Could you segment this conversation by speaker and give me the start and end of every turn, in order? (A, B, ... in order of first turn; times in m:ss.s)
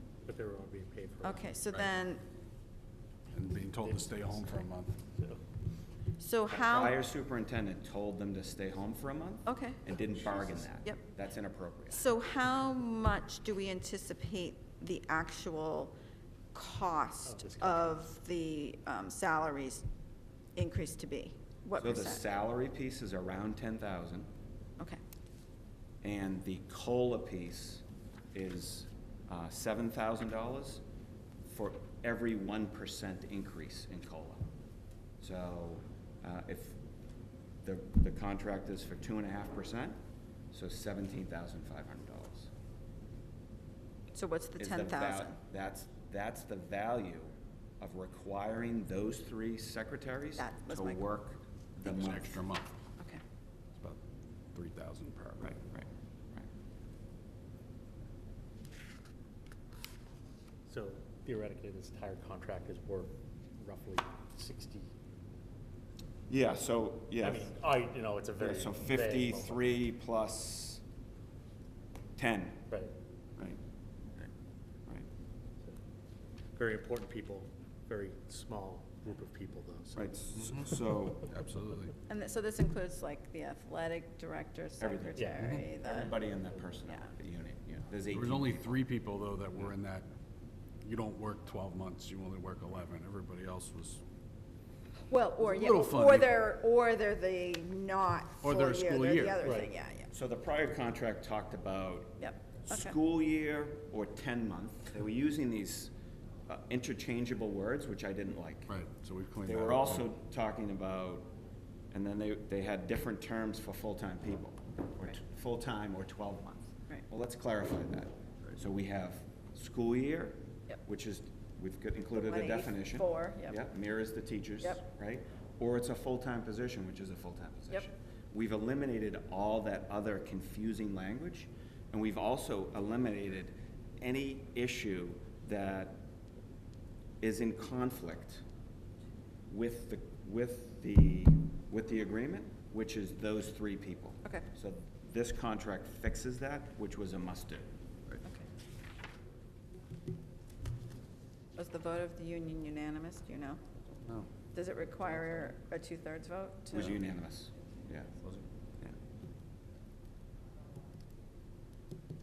0:00.2-0:01.5 A
0:01.2-0:02.2 B
0:03.3-0:05.0 C
0:05.2-0:05.4 A
0:06.2-0:07.0 B
0:06.5-0:12.0 D
0:09.5-0:09.8 B
0:11.9-0:15.9 B
0:16.5-0:19.8 B
0:17.2-0:18.0 A
0:20.6-0:22.2 B
0:21.8-0:24.3 D
0:26.0-0:30.8 D
0:31.4-0:34.5 D
0:35.2-0:36.8 D
0:37.6-0:40.0 D
0:40.5-0:42.5 D
0:44.1-0:45.4 B
0:44.6-0:52.4 D
0:50.4-0:51.1 B
0:51.8-0:52.7 C
0:54.5-0:55.5 C
0:55.4-0:56.5 D
1:00.7-1:04.9 A
1:06.3-1:07.5 D
1:07.2-1:09.8 A
1:08.4-1:10.8 D
1:12.2-1:12.7 D
1:16.5-1:20.1 A
1:19.9-1:21.3 D
1:21.3-1:21.9 C
1:22.1-1:26.2 B
1:24.8-1:28.7 D
1:25.2-1:25.5 A
1:28.1-1:30.1 C
1:30.8-1:34.0 C
1:35.1-1:40.1 B
1:35.4-1:36.4 C
1:38.4-1:39.5 C
1:40.1-1:45.9 D
1:42.2-1:43.0 B
1:46.5-1:48.7 D
1:48.7-1:50.0 C
1:49.4-1:51.3 D
1:51.9-2:16.0 D
2:02.1-2:03.6 B
2:17.2-2:18.4 D
2:19.5-2:27.7 D
2:31.6-2:33.6 B
2:34.5-2:37.0 B
2:36.7-2:38.1 D